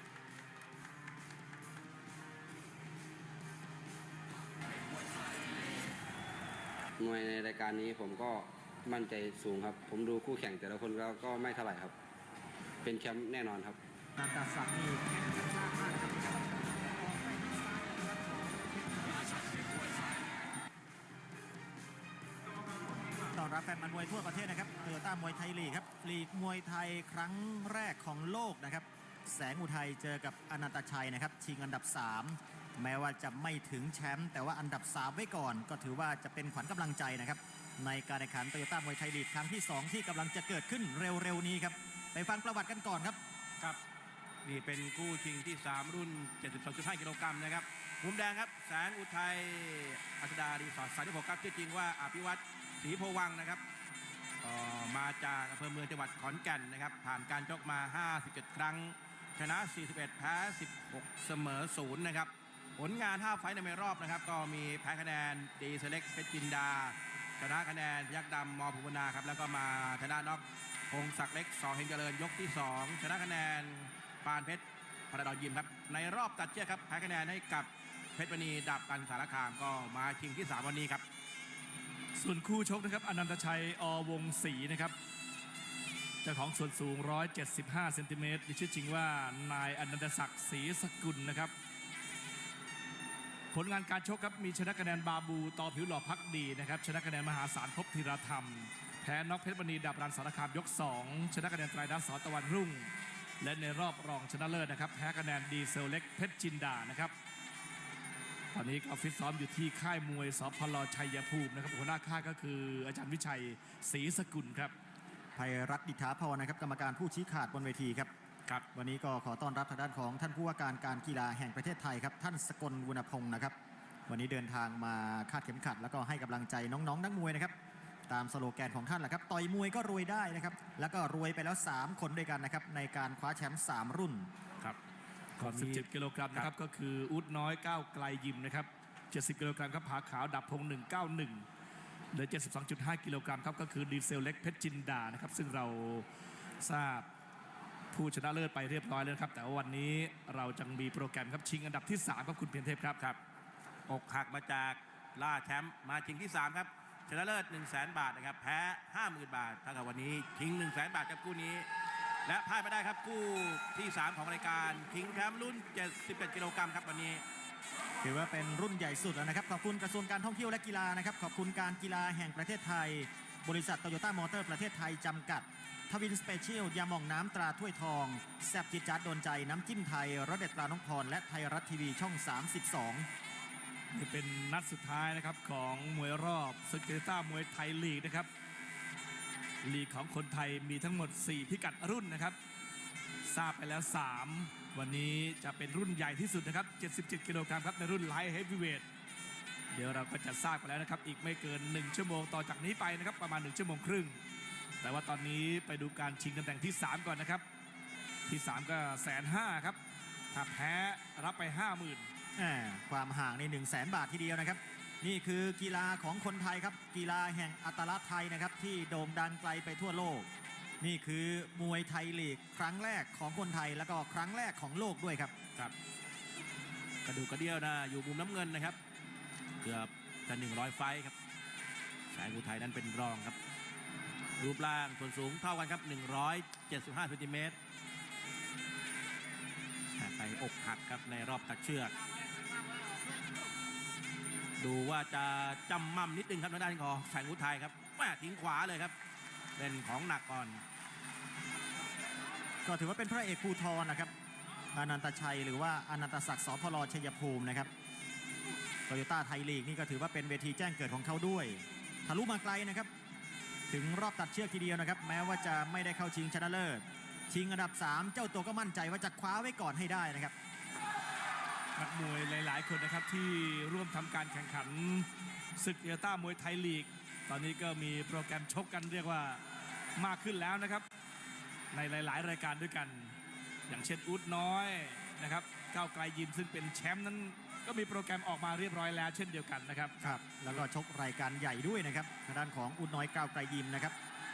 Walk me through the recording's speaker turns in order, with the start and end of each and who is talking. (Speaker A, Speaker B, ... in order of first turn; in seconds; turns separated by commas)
Speaker A: 7.0-11.9, Speaker A: 12.8-13.8, Speaker B: 14.2-18.6, Speaker B: 23.3-43.2, Speaker C: 44.4-53.6, Speaker C: 54.4-81.0, Speaker D: 82.1-85.0, Speaker D: 86.2-91.5, Speaker D: 93.5-107.1, Speaker D: 108.5-114.7, Speaker B: 115.3-118.1, Speaker B: 118.7-123.5, Speaker B: 124.1-127.5, Speaker B: 128.1-134.3, Speaker C: 135.4-136.5, Speaker D: 135.4-141.4, Speaker D: 142.1-146.1, Speaker D: 146.6-147.1, Speaker D: 147.9-153.0, Speaker C: 153.9-161.7, Speaker C: 162.2-167.2, Speaker B: 168.0-183.1, Speaker D: 183.9-188.3, Speaker D: 189.6-192.4, Speaker D: 193.2-198.8, Speaker D: 199.7-204.2, Speaker D: 204.8-207.4, Speaker D: 208.3-209.8, Speaker D: 210.3-212.1, Speaker B: 212.4-220.3, Speaker B: 220.8-225.3, Speaker C: 227.0-228.8, Speaker C: 229.6-231.1, Speaker C: 232.1-233.4, Speaker C: 234.4-237.6, Speaker C: 239.9-241.9, Speaker C: 244.6-248.9, Speaker C: 249.6-250.6, Speaker B: 252.6-254.1, Speaker B: 254.7-257.7, Speaker B: 258.9-262.9, Speaker B: 263.7-270.3, Speaker D: 271.8-279.4, Speaker D: 280.0-280.8, Speaker D: 281.7-283.1, Speaker D: 283.7-290.2, Speaker B: 290.0-293.9